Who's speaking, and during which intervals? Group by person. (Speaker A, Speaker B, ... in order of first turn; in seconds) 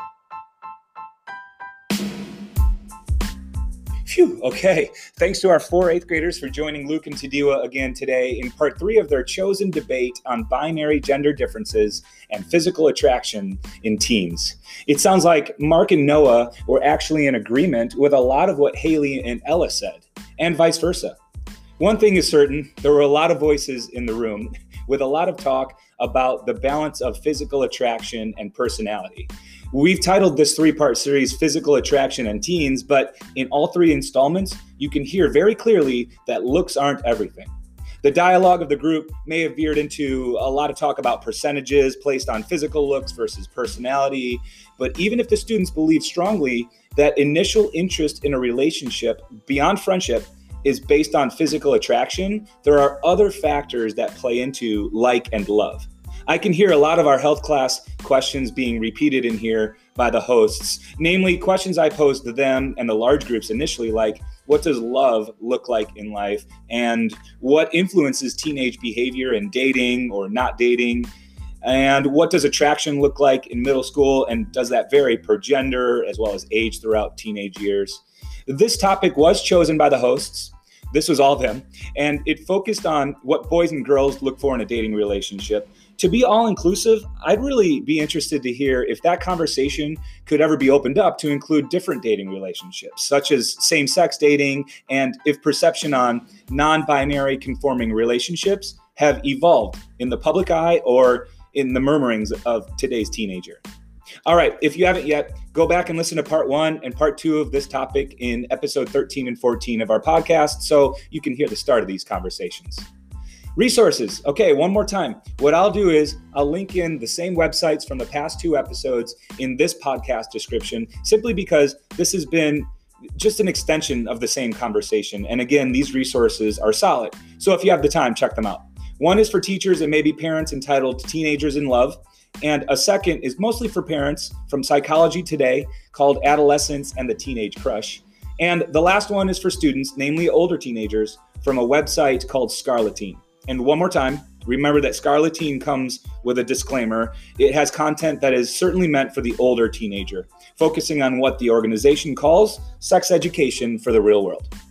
Speaker A: 4.0-21.2, 21.8-37.5, 38.0-71.1, 71.6-103.6, 104.2-112.8, 113.5-154.5